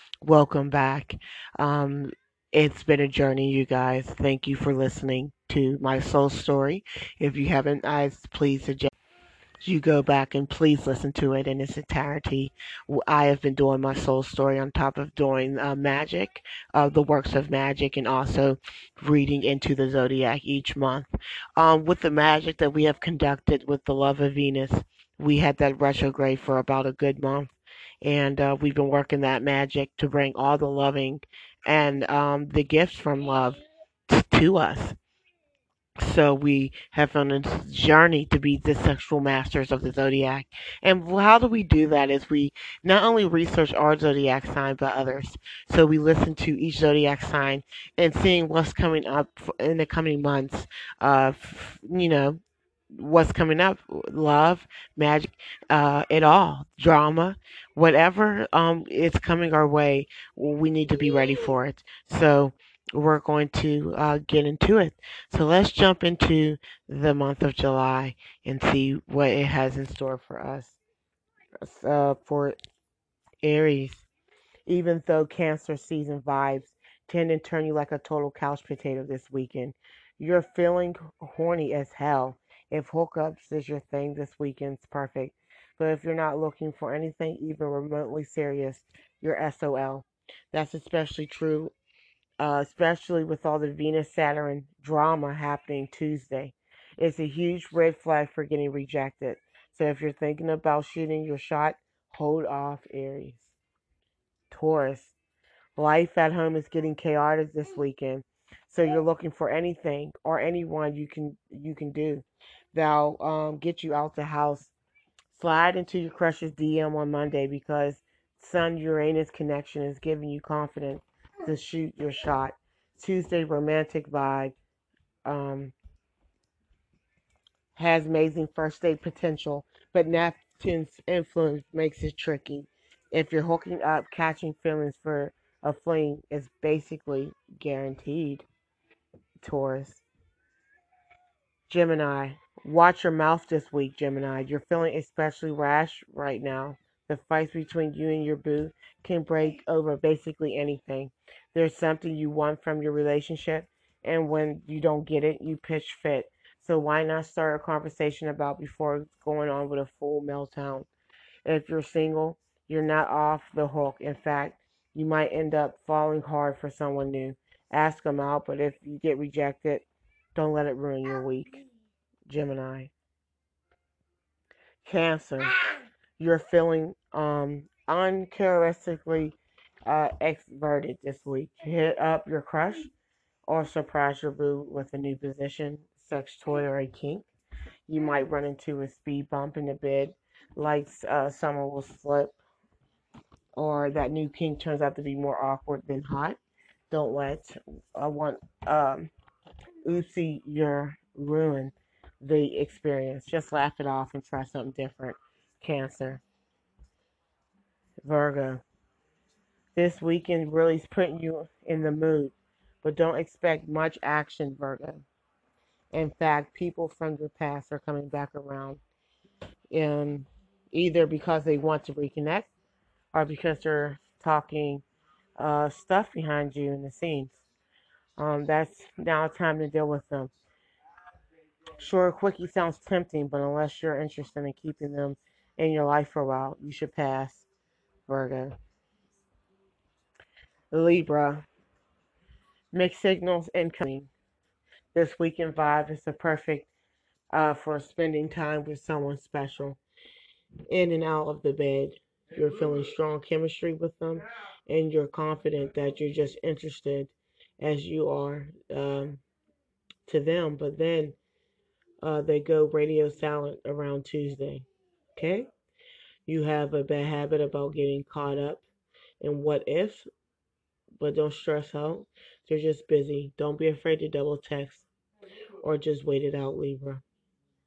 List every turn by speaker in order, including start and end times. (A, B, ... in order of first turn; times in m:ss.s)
0:00.2-0:08.9 A
0:09.6-0:35.0 A
0:36.0-0:52.4 A
0:52.9-1:10.8 A
1:11.6-1:12.6 A
1:13.4-1:14.1 A
1:14.7-1:31.7 A
1:32.4-1:43.6 A
1:44.5-1:45.2 A
1:45.8-1:54.7 A
1:55.3-2:04.6 A
2:05.2-2:05.8 A
2:07.8-2:18.5 A
2:19.4-2:20.0 A
2:21.7-2:40.9 A
2:41.4-2:51.6 A
2:52.3-2:52.9 A
2:54.8-2:55.6 A
2:56.2-3:02.9 A
3:03.5-3:07.3 A
3:07.9-3:12.4 A
3:13.6-3:16.4 A
3:16.9-3:19.1 A
3:19.8-3:26.2 A
3:28.0-3:28.6 A
3:29.8-3:35.0 A
3:35.9-3:38.8 A
3:39.7-3:42.5 A
3:43.1-3:44.8 A
3:45.4-3:47.4 A
3:48.2-3:50.3 A
3:51.8-3:57.5 A
3:58.1-3:58.5 A
4:00.7-4:01.5 A
4:02.7-4:04.1 A
4:04.9-4:06.7 A
4:07.3-4:09.8 A
4:10.7-4:19.2 A
4:20.1-4:21.2 A
4:22.0-4:25.5 A
4:26.3-4:28.6 A
4:29.2-4:30.1 A
4:31.0-4:34.9 A
4:35.6-4:37.0 A